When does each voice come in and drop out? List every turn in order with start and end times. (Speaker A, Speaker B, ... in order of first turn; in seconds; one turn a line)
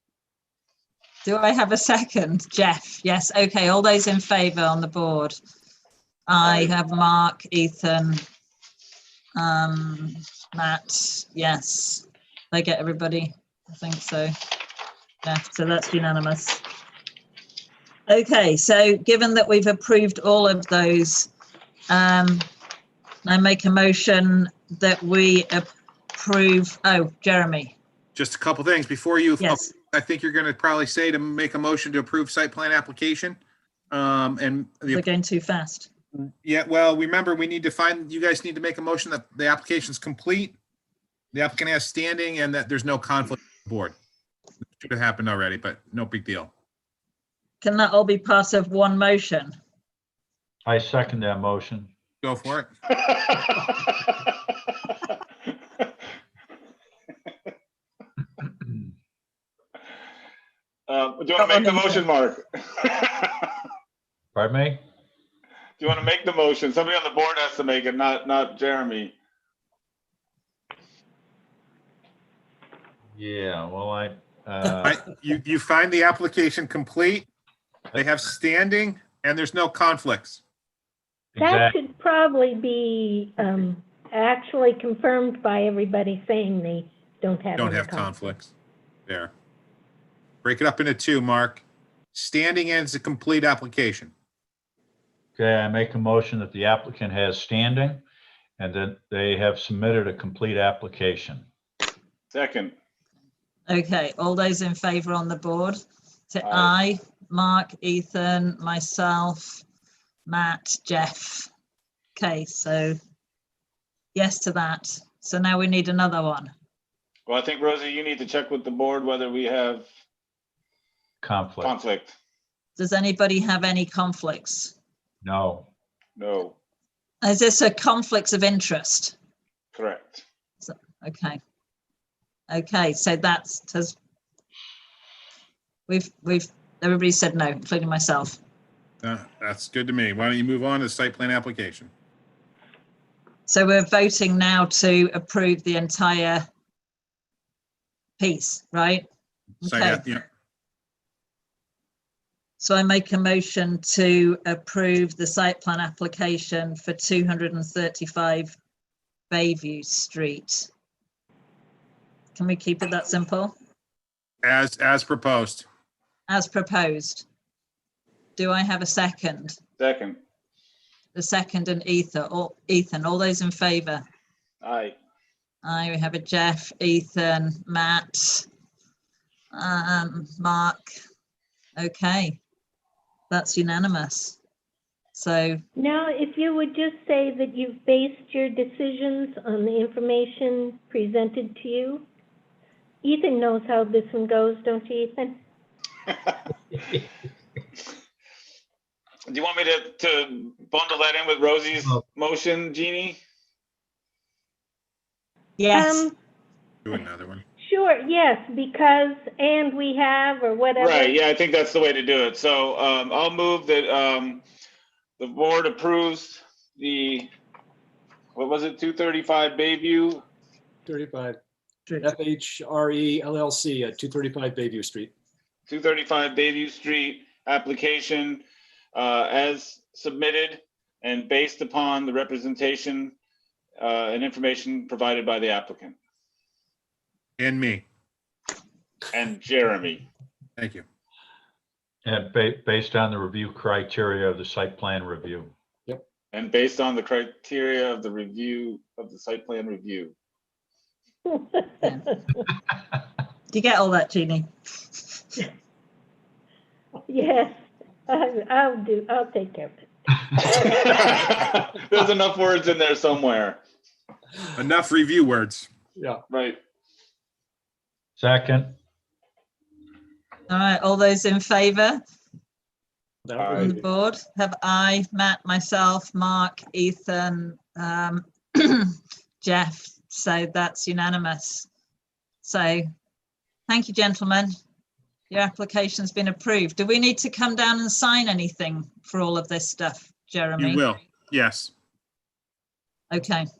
Speaker A: 1.2-5.3
Speaker A: 6.3-8.2
Speaker B: 6.4-6.8
Speaker A: 9.4-14.3
Speaker A: 15.2-16.6
Speaker A: 18.1-21.3
Speaker A: 21.9-22.5
Speaker A: 23.2-27.8
Speaker C: 28.1-33.4
Speaker A: 29.4-29.7
Speaker C: 33.9-35.0
Speaker A: 34.9-35.9
Speaker C: 36.1-40.6
Speaker C: 41.3-44.0
Speaker C: 44.8-46.5
Speaker A: 47.6-49.5
Speaker D: 50.7-51.9
Speaker C: 52.2-52.7
Speaker B: 52.9-54.1
Speaker B: 60.9-63.5
Speaker D: 64.3-64.8
Speaker B: 65.8-69.2
Speaker D: 73.2-75.0
Speaker C: 74.8-77.3
Speaker C: 77.9-80.4
Speaker D: 81.3-81.8
Speaker E: 81.4-88.3
Speaker C: 87.5-88.5
Speaker C: 90.4-94.1
Speaker D: 95.4-98.0
Speaker D: 98.6-101.5
Speaker B: 102.3-102.8
Speaker A: 103.7-105.8
Speaker A: 106.3-109.6
Speaker B: 106.4-106.8
Speaker A: 110.3-111.5
Speaker A: 112.2-113.0
Speaker A: 114.2-116.5
Speaker B: 117.3-119.9
Speaker D: 121.2-121.8
Speaker B: 121.6-122.2
Speaker A: 122.8-124.8
Speaker D: 125.2-125.7
Speaker B: 126.2-126.6
Speaker A: 127.2-129.2
Speaker B: 129.8-130.2
Speaker A: 130.6-131.4
Speaker A: 132.5-134.0
Speaker A: 135.9-138.4
Speaker C: 139.0-141.9
Speaker A: 143.5-146.4
Speaker A: 148.2-149.1
Speaker A: 149.6-150.2
Speaker C: 149.6-150.2
Speaker A: 152.6-158.6
Speaker A: 159.3-160.7
Speaker A: 162.3-163.6
Speaker C: 164.4-165.7
Speaker A: 166.3-167.3
Speaker A: 168.4-169.6
Speaker B: 169.8-170.2
Speaker A: 171.1-174.1
Speaker B: 174.6-175.0
Speaker A: 175.6-178.5
Speaker A: 179.5-180.8
Speaker A: 181.8-182.4
Speaker A: 183.3-184.4
Speaker A: 185.2-185.6
Speaker E: 185.8-192.1
Speaker E: 193.0-195.4
Speaker B: 199.3-203.2
Speaker A: 205.6-206.0
Speaker E: 205.7-206.2
Speaker C: 206.9-207.4
Speaker E: 207.6-211.2
Speaker B: 210.8-214.4
Speaker B: 215.2-217.3
Speaker B: 218.3-220.2
Speaker F: 220.9-221.4
Speaker F: 222.0-225.1
Speaker B: 225.7-228.4
Speaker B: 228.9-233.1
Speaker B: 233.8-236.0
Speaker C: 237.4-237.8
Speaker B: 239.1-240.1
Speaker C: 240.6-240.8
Speaker D: 242.1-245.5
Speaker B: 246.3-250.1
Speaker E: 251.3-252.5
Speaker A: 253.5-254.5
Speaker E: 257.1-260.5
Speaker B: 260.4-263.6
Speaker C: 264.6-265.7
Speaker B: 266.3-266.6
Speaker D: 268.2-268.8
Speaker A: 270.5-272.0
Speaker F: 273.2-273.9
Speaker B: 273.4-273.7
Speaker A: 273.6-281.7
Speaker A: 282.4-282.9
Speaker A: 283.7-284.5
Speaker A: 285.3-290.9
Speaker C: 290.6-291.7
Speaker A: 293.1-293.4